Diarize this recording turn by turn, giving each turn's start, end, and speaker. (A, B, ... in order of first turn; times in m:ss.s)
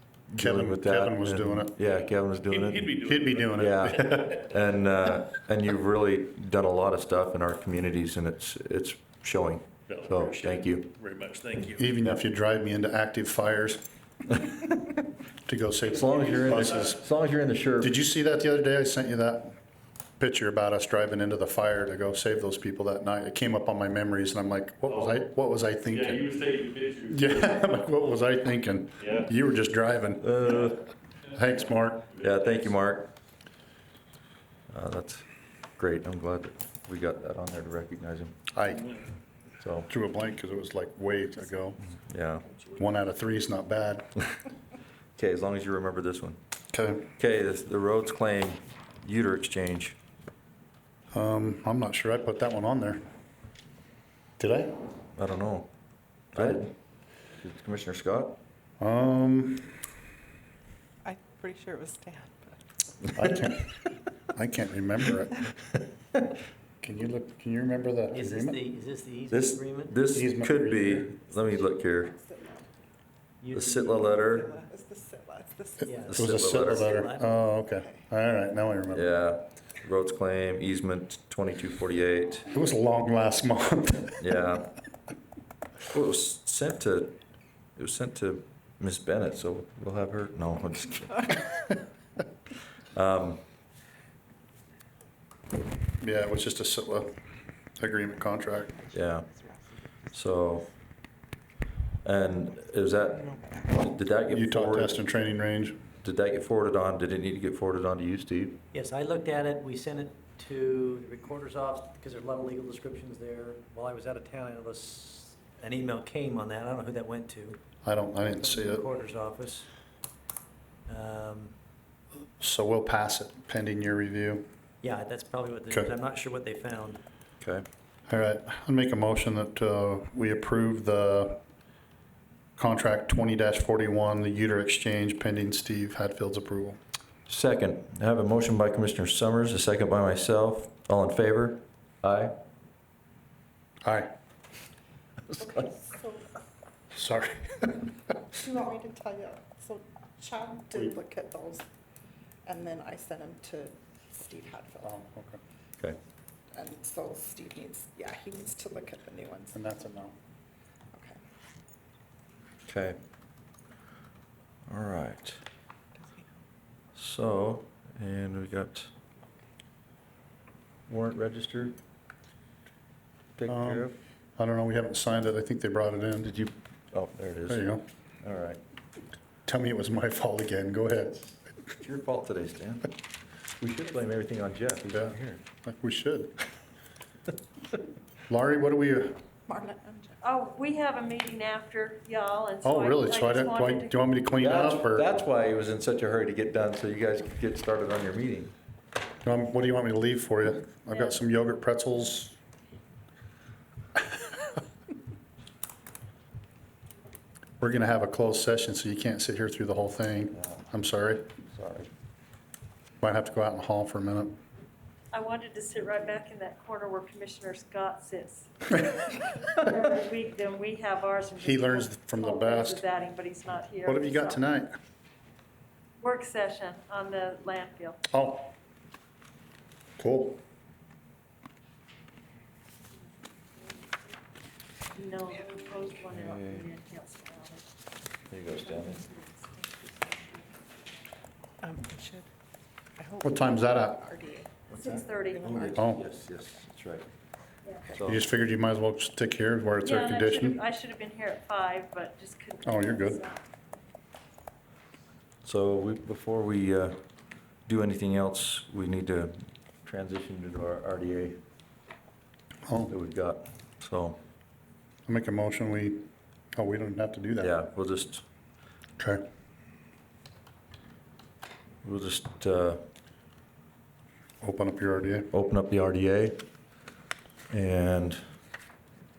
0:00.3-0:03.0 A
0:00.4-0:01.7 B
0:01.8-0:04.1 C
0:03.0-0:04.3 B
0:03.6-0:10.9 A
0:09.9-0:11.9 C
0:11.8-0:13.8 B
0:15.5-0:17.0 B
0:15.9-0:18.0 A
0:16.0-0:16.9 C
0:17.8-0:19.6 B
0:20.2-0:26.3 B
0:24.9-0:25.2 C
0:25.9-0:27.6 C
0:27.1-0:30.2 B
0:29.0-0:29.3 C
0:30.2-0:30.8 A
0:31.3-0:32.1 B
0:32.1-0:32.7 C
0:32.2-0:33.1 A
0:34.7-0:35.3 A
0:35.8-0:38.4 A
0:38.5-0:38.9 B
0:39.6-0:39.9 A
0:39.9-0:41.8 B
0:42.1-0:42.5 A
0:42.8-0:44.0 B
0:45.2-0:46.4 A
0:46.7-0:47.1 B
0:47.2-0:50.0 A
0:51.1-0:53.0 B
0:54.4-0:54.8 B
0:55.2-0:55.7 A
0:56.3-0:56.7 A
0:56.4-0:56.6 B
0:57.4-0:58.4 A
0:58.8-0:59.7 B
1:01.0-1:02.5 D
1:03.1-1:03.7 B
1:04.3-1:05.4 B
1:06.8-1:08.6 B
1:08.1-1:10.0 E
1:09.3-1:12.1 A
1:10.1-1:11.1 B
1:11.3-1:12.7 D
1:13.4-1:14.1 E
1:13.5-1:14.5 A
1:13.8-1:16.0 D
1:15.8-1:17.4 E
1:16.0-1:16.9 A
1:16.1-1:19.1 B
1:18.9-1:22.5 A
1:22.5-1:24.2 B
1:24.2-1:24.8 A
1:25.9-1:27.2 A
1:27.8-1:31.3 A
1:32.9-1:33.4 A
1:36.0-1:37.1 B
1:37.8-1:38.7 B
1:38.8-1:39.8 D
1:38.9-1:39.3 A
1:40.1-1:40.7 A
1:42.0-1:45.0 A
1:43.2-1:43.6 D
1:44.3-1:45.8 B
1:46.0-1:48.6 A
1:48.7-1:57.6 E
1:57.8-1:58.8 B
1:58.3-1:59.7 E
2:00.9-2:01.5 E
2:02.4-2:04.4 B
2:04.8-2:07.0 E
2:08.1-2:11.4 B
2:12.6-2:16.8 B
2:17.3-2:22.4 A
2:25.3-2:25.7 A
2:25.4-2:26.3 D
2:26.9-2:27.9 B
2:28.4-2:31.6 D
2:32.4-2:34.9 D
2:34.8-2:35.4 B
2:36.5-2:39.5 D
2:39.5-2:40.1 B
2:40.9-2:41.2 D
2:42.6-2:43.0 A
2:44.7-2:45.4 A
2:46.9-2:48.9 A
2:50.9-2:51.8 A
2:53.4-2:54.0 A
2:53.5-2:56.3 B
2:56.2-2:58.6 A
2:57.5-2:57.8 B
2:59.5-3:01.3 B
3:01.8-3:03.0 A
3:03.6-3:05.4 A
3:04.9-3:06.4 B
3:08.3-3:09.2 B
3:09.4-3:10.3 D
3:10.2-3:14.0 F
3:12.6-3:15.1 B
3:14.4-3:18.5 A
3:19.2-3:22.4 B
3:20.9-3:21.2 F
3:27.6-3:31.2 B
3:31.5-3:31.9 A
3:33.0-3:34.4 B
3:35.1-3:38.7 F
3:39.6-3:44.4 F
3:41.4-3:42.8 B
3:43.8-3:44.8 B
3:46.0-3:48.0 F
3:48.1-3:48.5 B
3:50.0-3:50.4 B
3:54.9-3:57.6 F
3:56.1-3:56.7 A
3:58.3-3:59.0 A
3:58.7-4:00.2 F
4:01.6-4:02.2 D
4:03.0-4:04.6 D
4:03.2-4:04.1 B
4:04.7-4:07.1 A
4:04.7-4:05.7 F
4:05.1-4:05.9 D
4:05.8-4:06.0 B
4:07.9-4:08.3 A
4:08.1-4:10.6 B
4:09.8-4:13.4 F
4:12.6-4:13.2 B
4:15.4-4:17.0 A
4:17.7-4:21.4 A
4:22.9-4:24.2 A
4:25.1-4:27.5 B
4:27.4-4:28.2 A
4:31.8-4:32.8 A
4:34.4-4:35.3 B
4:35.3-4:36.4 A
4:37.5-4:38.2 A